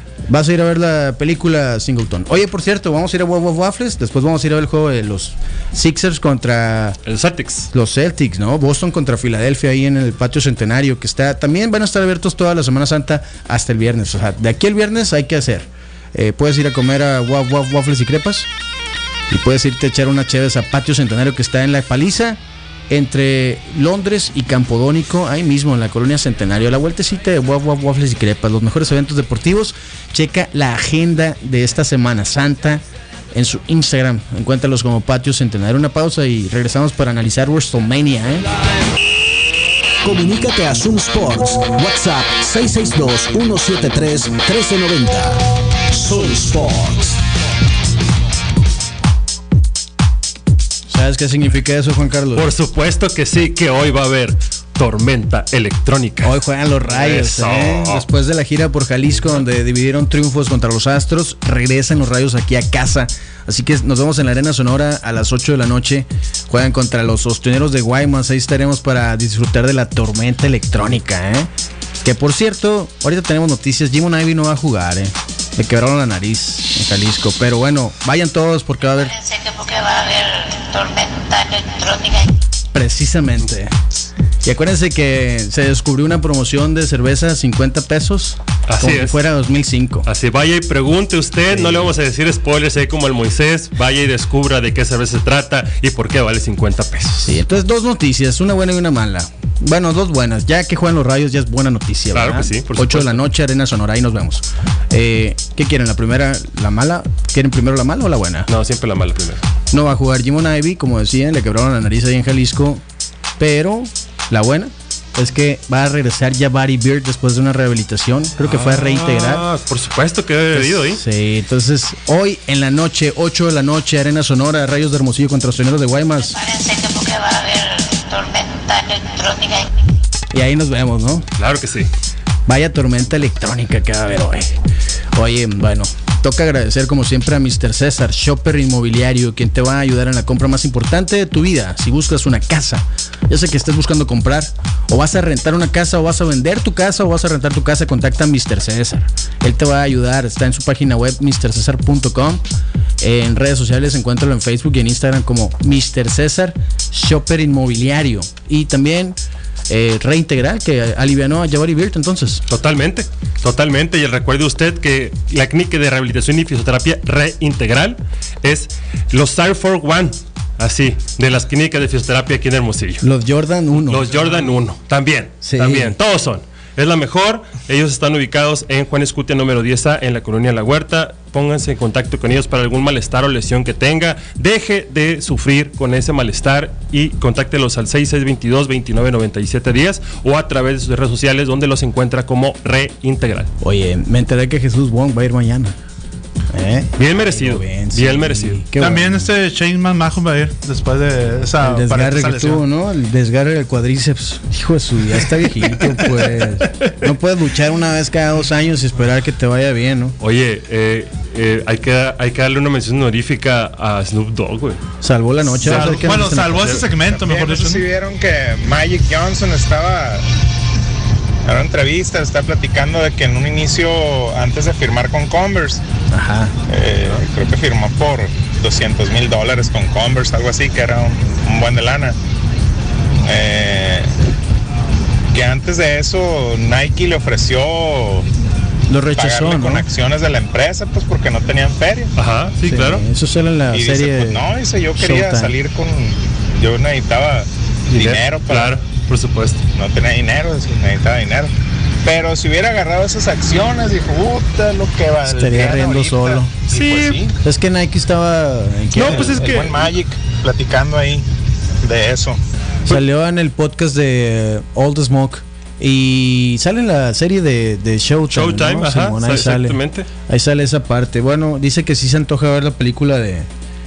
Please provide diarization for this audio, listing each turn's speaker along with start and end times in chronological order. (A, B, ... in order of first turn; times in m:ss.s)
0:00.3-0:07.0 A
0:07.0-0:07.7 B
0:07.7-0:18.5 A
0:19.3-0:22.4 A
0:22.9-0:38.5 A
0:40.0-0:47.2 C
0:50.9-0:52.5 A
0:52.3-0:56.4 B
0:56.2-1:11.5 A
0:56.9-0:58.0 B
1:12.0-1:19.1 A
1:19.0-1:22.3 D
1:22.7-1:23.8 A
1:24.4-1:30.1 A
1:28.7-1:29.2 B
1:30.0-1:37.4 B
1:31.5-1:31.9 A
1:37.2-1:48.5 A
1:42.1-1:43.2 B
1:48.5-1:49.4 B
1:49.7-1:52.8 A
1:53.4-1:59.4 A
1:58.4-2:01.0 B
2:00.5-2:06.4 A
2:06.3-2:09.9 D
2:10.3-2:11.3 A
2:11.4-2:11.9 B
2:12.5-2:14.6 A
2:15.1-2:32.4 A
2:33.0-2:39.2 A
2:39.7-2:42.4 A
2:42.5-2:53.0 B
2:53.0-2:54.1 A
2:53.8-3:13.5 B
2:55.4-2:56.0 A
3:13.6-3:15.8 A
3:16.5-3:19.3 A
3:17.0-3:18.6 B
3:18.8-3:22.6 E
3:21.6-3:30.2 A
3:30.2-3:34.8 B
3:35.0-3:36.8 A
3:35.6-3:36.8 B
3:35.6-3:37.9 E
3:37.1-3:40.2 F
3:41.4-3:45.8 F
3:46.1-3:46.6 A
3:46.7-3:52.2 F
3:53.2-3:54.1 F
3:55.3-3:58.3 F
3:58.9-3:59.9 A
3:59.2-4:02.1 F
4:02.2-4:03.0 B
4:02.6-4:05.5 A
4:03.7-4:08.8 F
4:07.9-4:09.6 B
4:09.8-4:11.5 F
4:12.0-4:17.4 F
4:15.2-4:16.5 A
4:16.7-4:17.2 B
4:17.4-4:19.5 A
4:18.9-4:19.9 B
4:19.1-4:21.2 F
4:21.8-4:22.4 F
4:22.8-4:33.5 A
4:28.3-4:30.1 B